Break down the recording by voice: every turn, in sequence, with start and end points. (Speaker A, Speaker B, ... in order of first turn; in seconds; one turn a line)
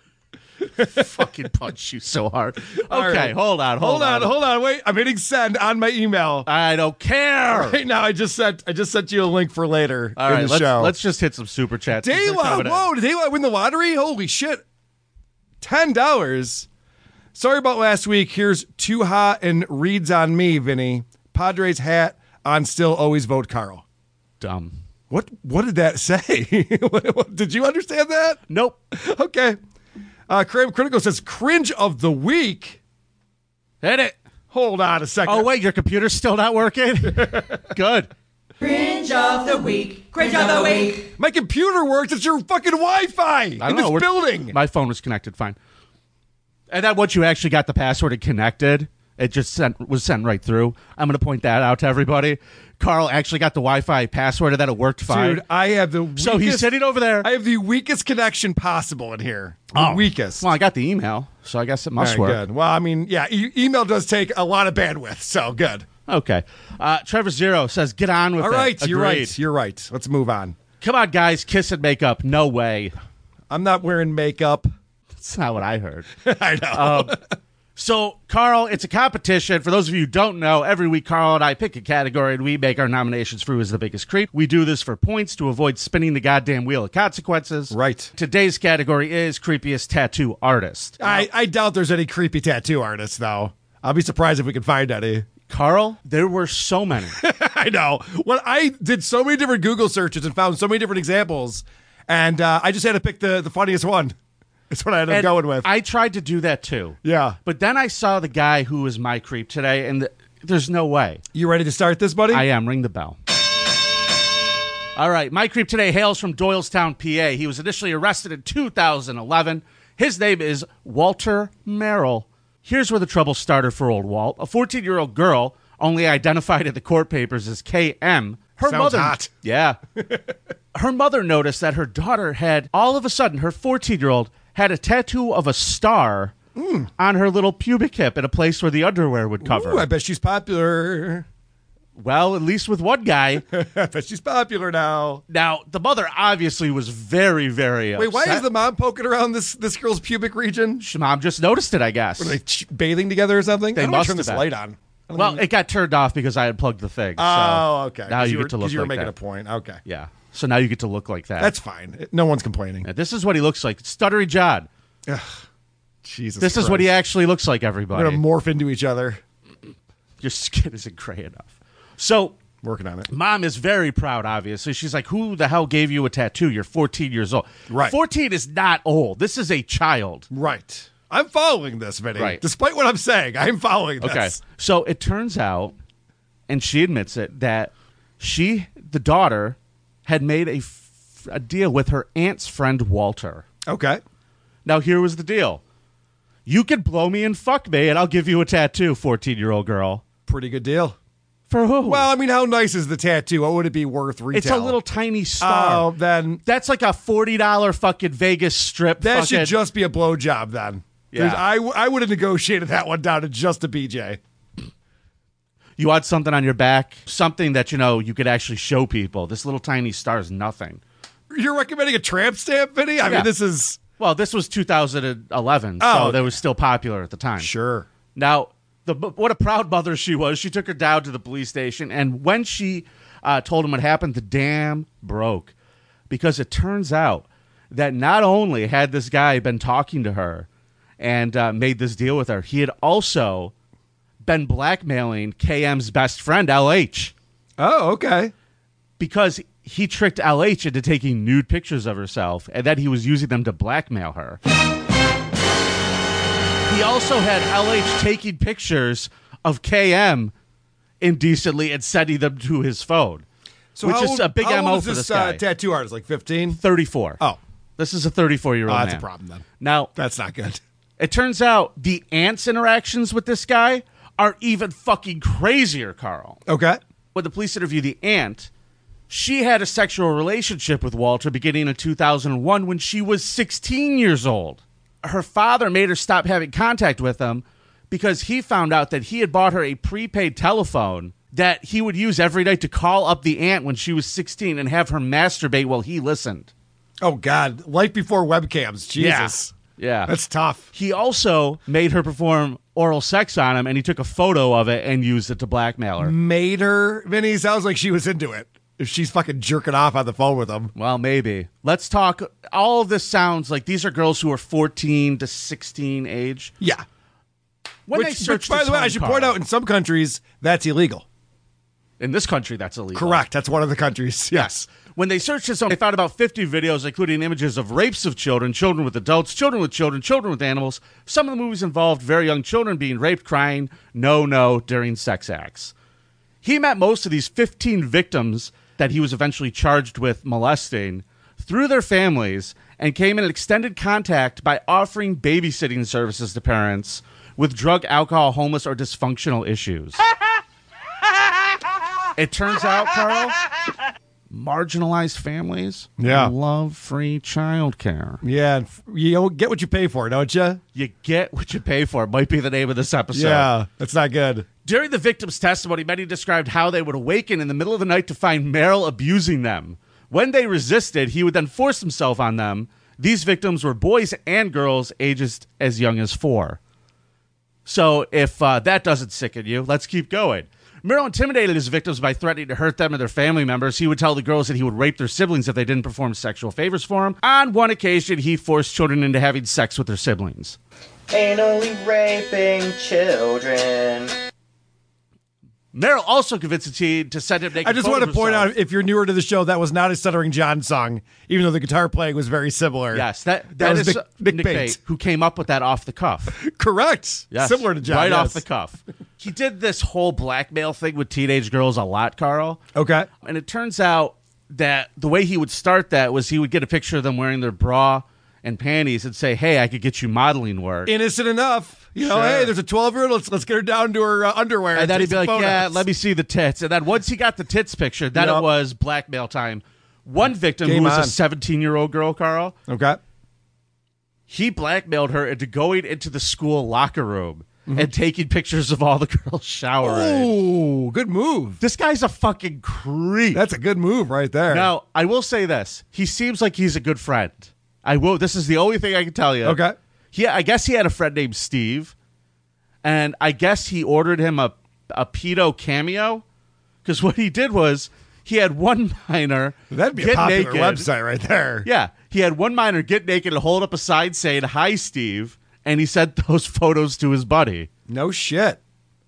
Speaker A: 0.8-4.3
Speaker B: 2.9-6.5
Speaker A: 6.5-7.8
Speaker B: 7.5-10.9
Speaker A: 10.2-12.9
Speaker B: 12.0-14.6
Speaker B: 15.6-16.7
Speaker B: 17.3-23.8
Speaker A: 24.4-24.8
Speaker B: 25.1-28.4
Speaker A: 28.5-28.8
Speaker B: 28.9-29.6
Speaker B: 30.3-32.8
Speaker A: 33.8-34.2
Speaker B: 34.5-35.5
Speaker A: 35.2-38.1
Speaker B: 37.1-37.6
Speaker C: 38.6-41.1
Speaker B: 41.2-44.5
Speaker A: 43.6-45.6
Speaker A: 46.7-55.4
Speaker B: 55.1-60.5
Speaker A: 56.2-57.3
Speaker A: 59.7-62.4
Speaker B: 62.0-65.8
Speaker A: 66.1-69.3
Speaker B: 68.4-70.6
Speaker A: 70.8-72.9
Speaker B: 73.5-74.7
Speaker A: 75.2-76.1
Speaker B: 76.2-77.2
Speaker A: 76.7-77.1
Speaker A: 77.8-91.3
Speaker B: 87.7-88.1
Speaker B: 91.0-95.3
Speaker A: 95.5-97.2
Speaker B: 97.1-104.1
Speaker B: 104.7-105.7
Speaker A: 105.1-111.2
Speaker B: 107.0-107.4
Speaker B: 111.3-112.4
Speaker A: 112.3-113.2
Speaker A: 115.0-129.8
Speaker B: 128.6-129.3
Speaker A: 130.7-136.3
Speaker B: 136.6-136.9
Speaker A: 137.0-139.8
Speaker B: 139.4-141.2
Speaker A: 142.0-143.4
Speaker B: 143.5-145.2
Speaker A: 145.3-148.5
Speaker B: 147.9-150.8
Speaker A: 150.8-152.4
Speaker B: 152.2-155.4
Speaker A: 153.7-154.5
Speaker A: 155.2-159.1
Speaker B: 157.2-159.8
Speaker A: 159.8-161.5
Speaker B: 161.4-162.9
Speaker A: 162.8-164.7
Speaker B: 165.1-165.4
Speaker B: 166.0-166.9
Speaker A: 166.4-168.2
Speaker B: 167.9-169.2
Speaker A: 170.2-172.3
Speaker B: 172.6-173.1
Speaker A: 173.1-180.3
Speaker B: 177.7-177.9
Speaker B: 180.3-184.4
Speaker A: 184.0-185.8
Speaker A: 186.5-193.4
Speaker B: 193.7-194.0
Speaker A: 194.6-195.6
Speaker A: 196.4-200.0
Speaker B: 200.3-201.0
Speaker A: 201.5-202.1
Speaker B: 201.8-204.8
Speaker A: 204.3-205.9
Speaker B: 205.4-206.4
Speaker A: 206.4-209.5
Speaker B: 209.0-214.2
Speaker A: 211.1-211.4
Speaker A: 215.8-220.8
Speaker B: 221.3-223.8
Speaker A: 224.0-227.5
Speaker B: 225.8-226.3
Speaker B: 227.4-227.9
Speaker A: 228.1-235.5
Speaker A: 236.1-240.5
Speaker A: 241.0-243.5
Speaker A: 244.2-247.1
Speaker B: 247.6-248.3
Speaker A: 249.0-254.4
Speaker A: 256.7-260.3
Speaker A: 261.0-263.2
Speaker B: 263.7-266.6
Speaker A: 263.8-265.4
Speaker A: 266.5-267.2
Speaker A: 267.8-269.0
Speaker B: 268.7-269.4
Speaker A: 269.6-269.9
Speaker B: 269.9-270.6
Speaker A: 271.0-276.4
Speaker B: 276.5-276.8
Speaker A: 277.1-278.5
Speaker A: 279.1-296.5
Speaker B: 297.0-299.5
Speaker A: 299.0-300.1
Speaker B: 300.1-300.7
Speaker A: 300.7-306.1
Speaker B: 306.0-310.7
Speaker A: 310.7-316.5
Speaker A: 317.9-319.4
Speaker B: 317.9-321.0
Speaker A: 322.0-323.2
Speaker B: 322.9-324.6
Speaker A: 324.3-335.7
Speaker A: 336.4-350.0
Speaker A: 352.2-353.4
Speaker A: 354.3-358.2
Speaker B: 356.0-356.3
Speaker B: 358.2-360.6
Speaker A: 360.7-363.5
Speaker B: 363.1-364.5
Speaker A: 364.6-376.6
Speaker A: 377.6-390.6
Speaker D: 391.1-394.1
Speaker A: 395.7-398.5
Speaker B: 397.6-404.8
Speaker A: 402.9-406.4
Speaker B: 406.3-408.4
Speaker A: 407.3-412.6
Speaker B: 412.7-413.1
Speaker A: 413.2-420.9
Speaker B: 420.9-425.8
Speaker A: 422.0-422.5
Speaker A: 424.7-432.6
Speaker B: 428.1-428.5
Speaker B: 430.6-431.1
Speaker B: 432.7-433.0
Speaker A: 434.3-440.3
Speaker B: 439.8-441.6
Speaker A: 441.6-443.4
Speaker B: 443.3-444.7
Speaker A: 444.5-449.6
Speaker B: 449.4-449.8
Speaker A: 450.1-451.9
Speaker A: 452.8-456.2
Speaker A: 456.8-460.9
Speaker B: 459.7-461.7
Speaker A: 461.6-467.7
Speaker B: 467.9-468.6